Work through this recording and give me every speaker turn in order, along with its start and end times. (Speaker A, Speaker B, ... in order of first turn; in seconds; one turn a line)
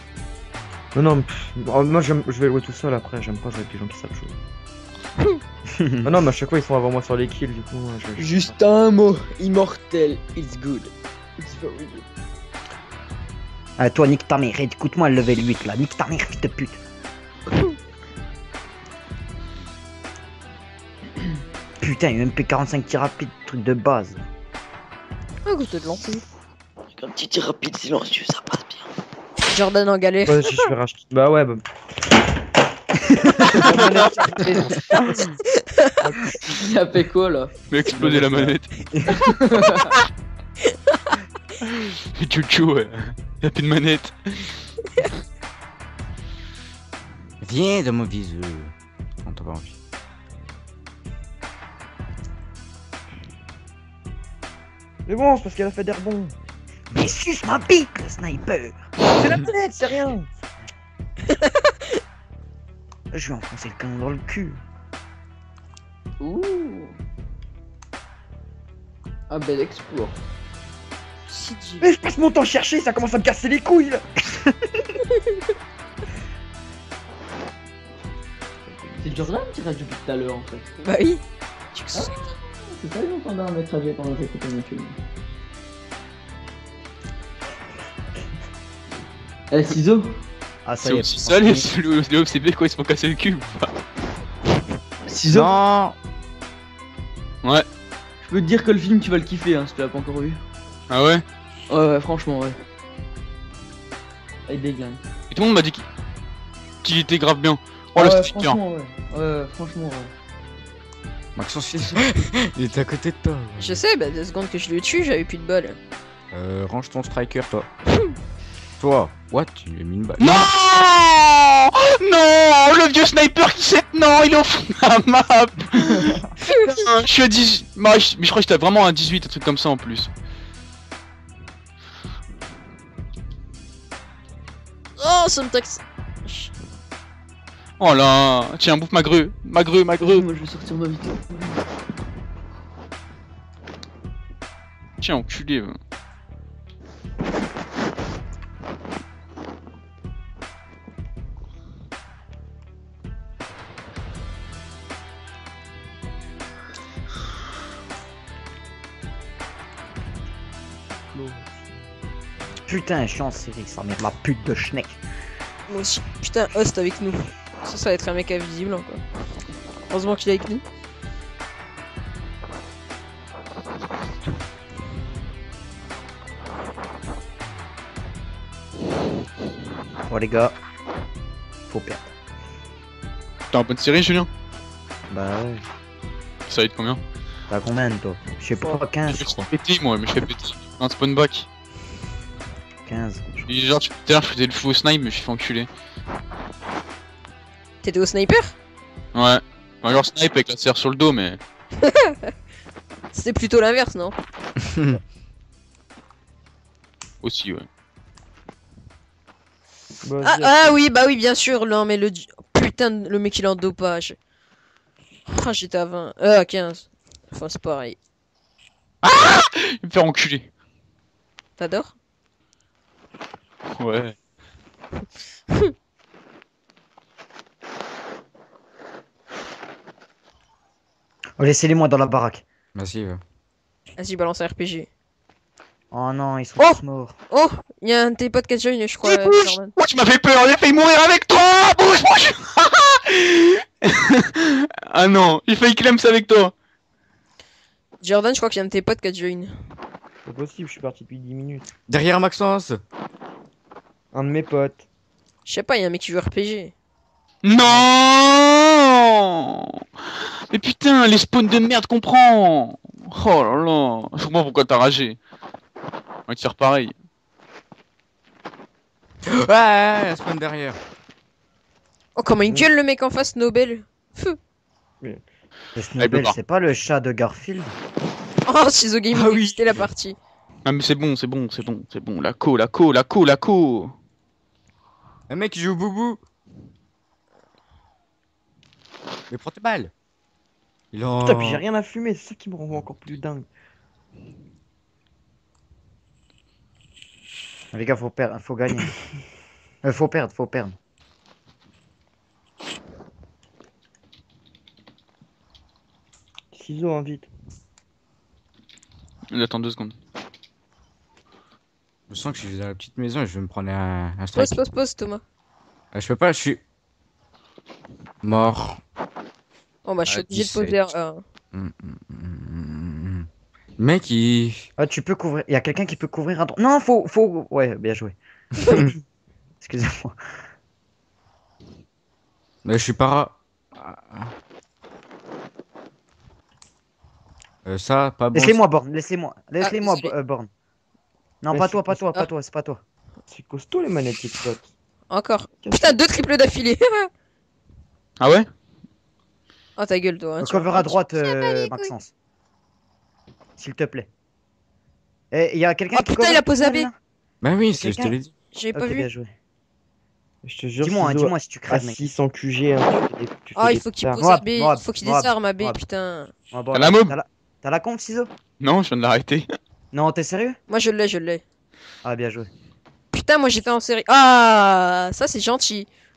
Speaker A: 0.9-4.3
Speaker B: 5.7-6.1
Speaker A: 6.0-8.6
Speaker C: 8.2-12.1
Speaker B: 13.8-16.8
Speaker B: 21.8-24.2
Speaker D: 25.4-26.2
Speaker C: 26.9-28.8
Speaker D: 29.5-30.6
Speaker A: 30.2-31.6
Speaker B: 33.3-33.7
Speaker A: 33.4-35.1
Speaker D: 34.3-34.7
Speaker A: 36.0-36.6
Speaker C: 36.6-37.5
Speaker E: 37.7-38.7
Speaker A: 37.9-38.6
Speaker C: 39.2-39.9
Speaker E: 42.1-44.5
Speaker F: 47.4-49.8
Speaker A: 55.0-56.3
Speaker B: 56.9-58.8
Speaker A: 59.1-60.3
Speaker B: 63.1-64.6
Speaker C: 66.2-67.0
Speaker C: 69.3-70.2
Speaker D: 71.3-71.9
Speaker A: 71.8-74.0
Speaker A: 78.7-79.3
Speaker C: 79.0-80.7
Speaker D: 80.8-81.2
Speaker D: 81.7-82.2
Speaker C: 81.9-85.0
Speaker C: 89.5-90.2
Speaker B: 90.6-91.7
Speaker E: 90.8-93.8
Speaker C: 95.1-95.5
Speaker F: 95.3-96.0
Speaker C: 98.2-100.4
Speaker E: 100.9-101.2
Speaker C: 101.7-102.6
Speaker C: 104.5-105.0
Speaker E: 105.3-105.8
Speaker E: 106.8-108.6
Speaker C: 107.9-110.1
Speaker F: 111.3-113.8
Speaker D: 113.6-115.8
Speaker F: 116.3-117.7
Speaker F: 118.8-120.5
Speaker E: 120.2-130.1
Speaker D: 135.0-136.5
Speaker E: 137.8-140.3
Speaker C: 140.0-141.6
Speaker E: 145.0-145.8
Speaker A: 161.0-161.8
Speaker B: 162.7-165.0
Speaker D: 165.7-169.0
Speaker D: 169.9-170.6
Speaker B: 180.1-180.5
Speaker B: 181.7-182.1
Speaker E: 183.5-184.3
Speaker B: 185.1-185.6
Speaker E: 186.5-187.0
Speaker B: 187.5-189.4
Speaker E: 189.1-191.5
Speaker B: 192.8-193.4
Speaker E: 193.4-195.7
Speaker D: 197.8-198.5
Speaker E: 199.1-201.4
Speaker D: 201.8-202.3
Speaker D: 203.1-204.2
Speaker E: 207.2-207.7
Speaker A: 210.0-210.7
Speaker D: 210.2-214.2
Speaker D: 215.3-217.9
Speaker E: 219.0-220.5
Speaker D: 221.6-221.9
Speaker E: 223.8-224.1
Speaker B: 231.4-232.4
Speaker F: 232.7-233.2
Speaker D: 234.0-234.9
Speaker B: 235.9-237.1
Speaker D: 237.3-239.7
Speaker E: 239.0-246.5
Speaker D: 248.0-249.5
Speaker A: 250.2-251.7
Speaker F: 251.9-252.8
Speaker A: 254.1-254.8
Speaker D: 255.4-256.7
Speaker E: 257.4-259.8
Speaker A: 257.6-257.9
Speaker E: 260.5-265.2
Speaker E: 266.3-266.9
Speaker F: 269.2-270.8
Speaker D: 272.1-274.4
Speaker B: 275.7-277.7
Speaker E: 276.0-276.4
Speaker D: 278.4-280.2
Speaker F: 279.1-279.9
Speaker E: 280.6-283.9
Speaker F: 285.3-286.2
Speaker F: 289.3-289.9
Speaker F: 290.9-291.6
Speaker A: 291.2-293.5
Speaker B: 297.7-298.9
Speaker B: 299.8-300.7
Speaker A: 306.5-307.3
Speaker E: 309.3-309.9
Speaker F: 312.1-314.6
Speaker D: 314.3-315.2
Speaker F: 315.9-316.6
Speaker F: 318.2-318.8
Speaker D: 319.8-321.2
Speaker F: 320.1-320.9
Speaker F: 321.5-324.7
Speaker B: 324.8-328.9
Speaker F: 328.6-328.9
Speaker B: 329.6-330.2
Speaker F: 332.6-334.3
Speaker F: 337.6-338.6
Speaker B: 338.3-340.5
Speaker D: 339.6-340.1
Speaker B: 341.4-342.8
Speaker A: 341.5-342.0
Speaker A: 343.3-344.7
Speaker D: 345.1-347.1
Speaker A: 345.6-346.0
Speaker E: 348.2-348.5
Speaker D: 349.8-351.9
Speaker B: 350.4-352.1
Speaker B: 353.6-354.1
Speaker B: 355.3-356.9
Speaker D: 355.9-356.9
Speaker F: 357.4-358.3
Speaker B: 357.8-358.1
Speaker D: 358.5-359.1
Speaker B: 358.7-359.3
Speaker A: 360.4-364.2
Speaker B: 360.8-362.0
Speaker D: 363.5-366.3
Speaker B: 364.2-365.8
Speaker B: 366.5-368.3
Speaker E: 366.7-367.1
Speaker E: 368.6-369.5
Speaker B: 369.9-370.6
Speaker D: 370.7-371.4
Speaker B: 372.0-372.5
Speaker D: 373.1-375.9